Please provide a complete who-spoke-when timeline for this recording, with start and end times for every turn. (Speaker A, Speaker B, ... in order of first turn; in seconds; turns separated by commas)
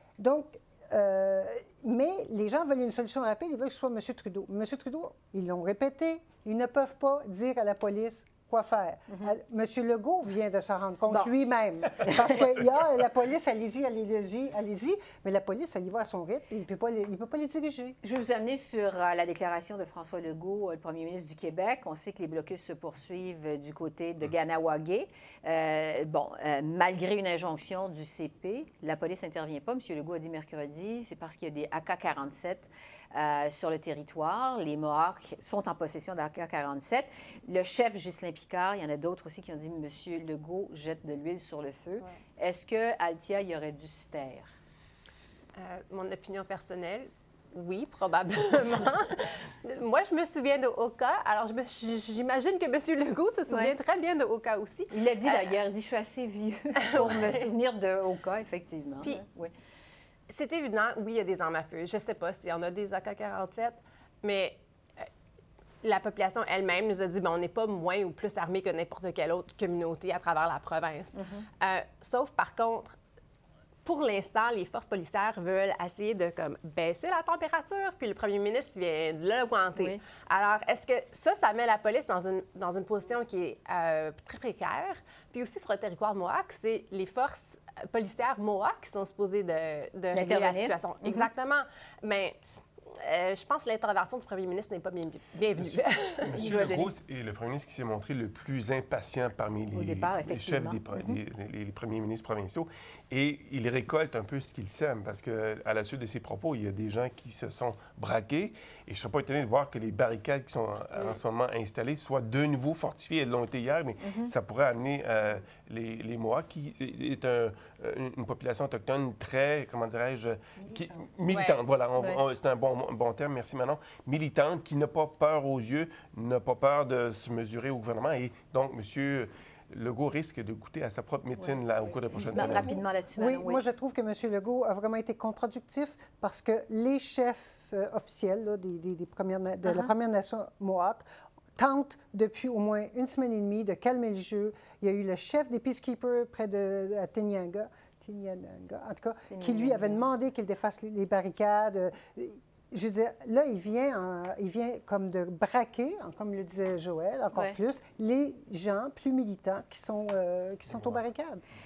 Speaker A: 0.2-18.0, Speaker B: 12.0-12.4, Speaker B: 18.0-44.5, Speaker C: 45.6-55.5, Speaker B: 53.5-53.7, Speaker B: 54.9-59.5, Speaker C: 56.8-57.5, Speaker C: 60.3-65.0, Speaker C: 65.8-73.0, Speaker B: 71.1-71.5, Speaker C: 73.8-92.3, Speaker B: 90.1-91.3, Speaker C: 93.0-96.7, Speaker D: 95.6-132.8, Speaker B: 96.4-96.9, Speaker B: 99.7-101.2, Speaker B: 114.0-114.3, Speaker C: 121.3-121.6, Speaker B: 132.3-133.6, Speaker A: 132.3-141.0, Speaker B: 139.6-139.9, Speaker A: 141.6-161.4, Speaker B: 149.3-150.0